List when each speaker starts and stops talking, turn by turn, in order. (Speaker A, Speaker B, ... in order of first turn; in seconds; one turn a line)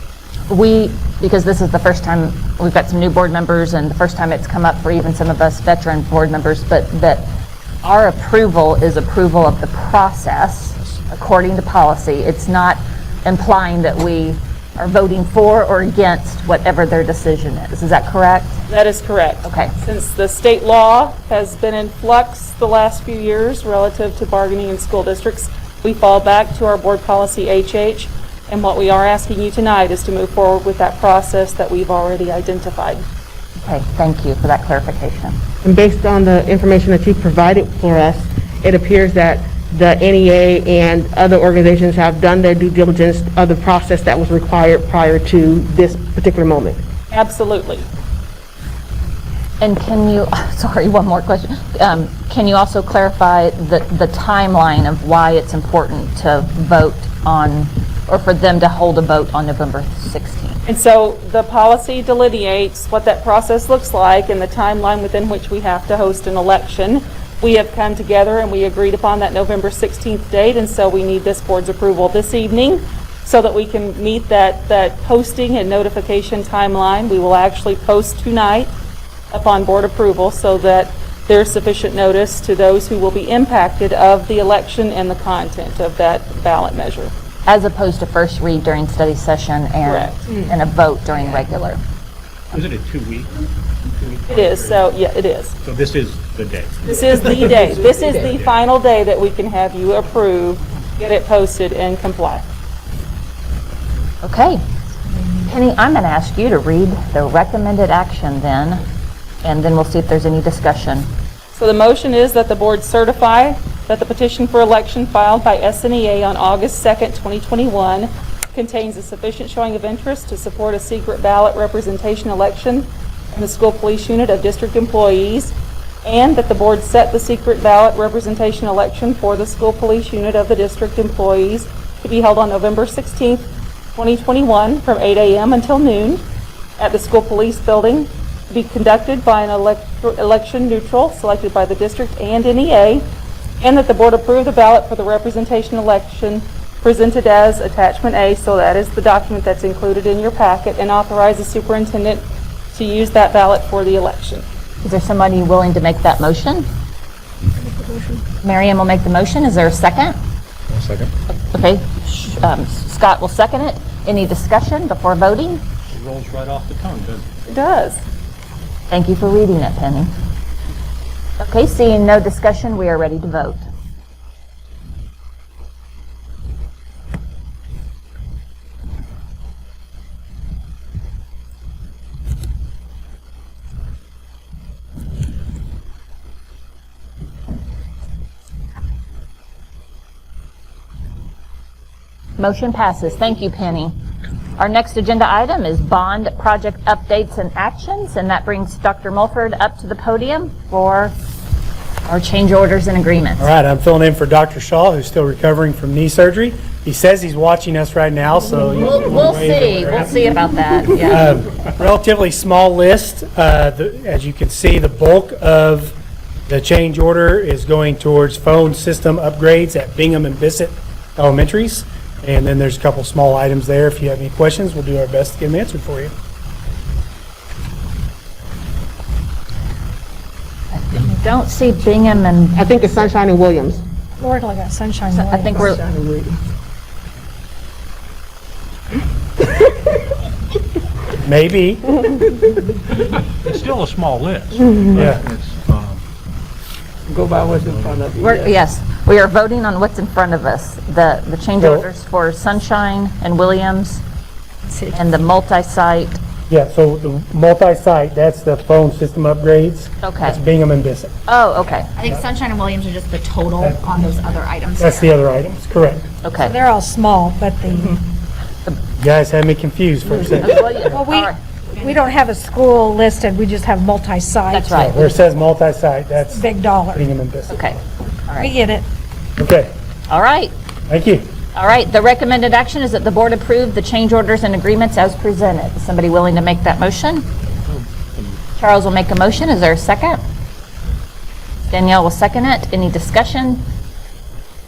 Speaker A: 0.5-7.3
Speaker A: 7.8-18.6
Speaker B: 18.7-33.0
Speaker A: 19.4-19.7
Speaker A: 33.6-35.4
Speaker C: 35.6-46.8
Speaker B: 47.1-47.9
Speaker A: 49.6-60.6
Speaker B: 60.6-78.7
Speaker B: 79.3-87.1
Speaker A: 87.5-91.8
Speaker B: 89.8-90.3
Speaker D: 92.5-94.9
Speaker B: 94.3-95.5
Speaker D: 95.6-98.5
Speaker B: 96.8-102.5
Speaker A: 104.2-104.6
Speaker A: 105.4-108.8
Speaker A: 109.4-111.1
Speaker B: 111.5-125.5
Speaker B: 126.0-136.2
Speaker B: 136.8-143.1
Speaker B: 143.6-154.4
Speaker A: 154.8-156.7
Speaker A: 158.4-160.2
Speaker D: 160.7-161.1
Speaker A: 161.3-165.6
Speaker D: 165.9-167.3
Speaker B: 167.5-168.0
Speaker A: 168.9-170.1
Speaker A: 171.4-173.6
Speaker A: 192.4-193.9
Speaker A: 194.6-201.1
Speaker A: 202.1-203.5
Speaker E: 203.4-210.3
Speaker A: 208.7-211.3
Speaker E: 211.0-215.9
Speaker E: 216.5-226.1
Speaker A: 230.7-232.9
Speaker C: 232.5-233.8
Speaker F: 234.2-235.8
Speaker A: 235.1-235.8
Speaker E: 241.2-242.0
Speaker D: 243.4-246.0
Speaker E: 244.9-245.2
Speaker D: 247.4-248.1
Speaker A: 248.2-254.0
Speaker E: 251.6-251.9
Speaker A: 254.9-256.2
Speaker E: 256.5-261.1
Speaker A: 260.0-260.4
Speaker A: 261.3-262.0
Speaker G: 261.9-265.1
Speaker E: 264.8-266.1
Speaker A: 266.2-266.6
Speaker F: 266.4-268.0
Speaker E: 268.9-270.9
Speaker A: 270.4-271.4
Speaker F: 270.9-275.2
Speaker A: 274.5-275.0
Speaker E: 274.8-277.6
Speaker F: 276.3-277.0
Speaker A: 277.5-278.5
Speaker F: 278.4-278.9
Speaker E: 279.4-279.7
Speaker A: 280.1-280.5
Speaker E: 280.9-281.3
Speaker A: 281.5-287.2
Speaker D: 287.7-288.4
Speaker A: 288.6-290.2
Speaker A: 291.7-293.6